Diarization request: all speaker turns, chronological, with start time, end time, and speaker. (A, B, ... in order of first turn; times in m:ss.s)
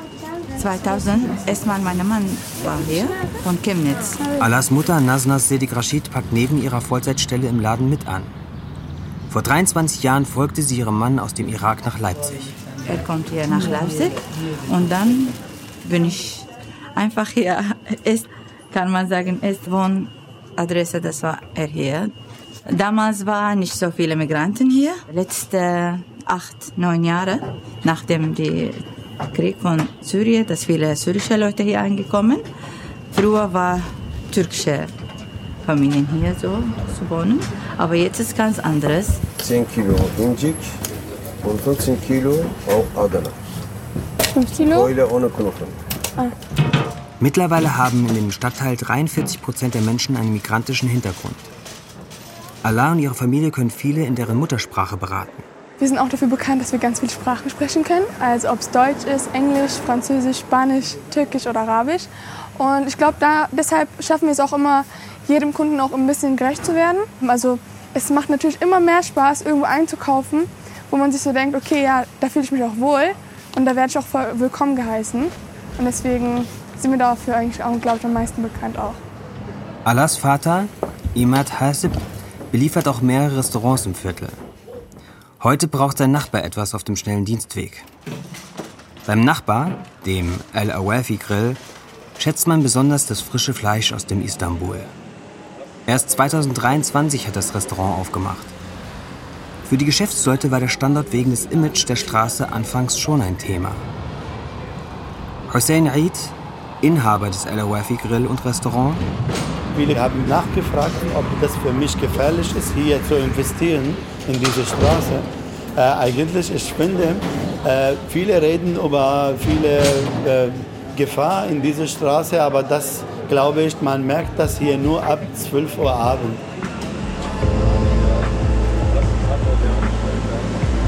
0:00.5-0:04.2 A
0:04.4-0:08.4 B
0:09.3-0:12.5 B
0:12.9-0:22.1 A
0:22.6-0:28.8 A
0:29.3-0:32.4 A
0:33.1-0:34.9 A
0:35.6-0:39.3 A
0:39.4-0:40.6 C
0:41.4-0:43.4 C
0:44.3-0:44.9 D
0:44.6-0:45.8 C
0:47.2-0:51.5 B
0:52.6-0:55.5 B
0:55.8-1:19.0 D
1:19.8-1:24.4 B
1:25.4-1:27.9 B
1:29.0-1:31.6 B
1:32.2-1:34.9 B
1:35.9-1:38.6 B
1:39.6-1:43.8 B
1:45.5-1:49.1 B
1:49.7-1:55.2 E
1:55.8-2:06.4 E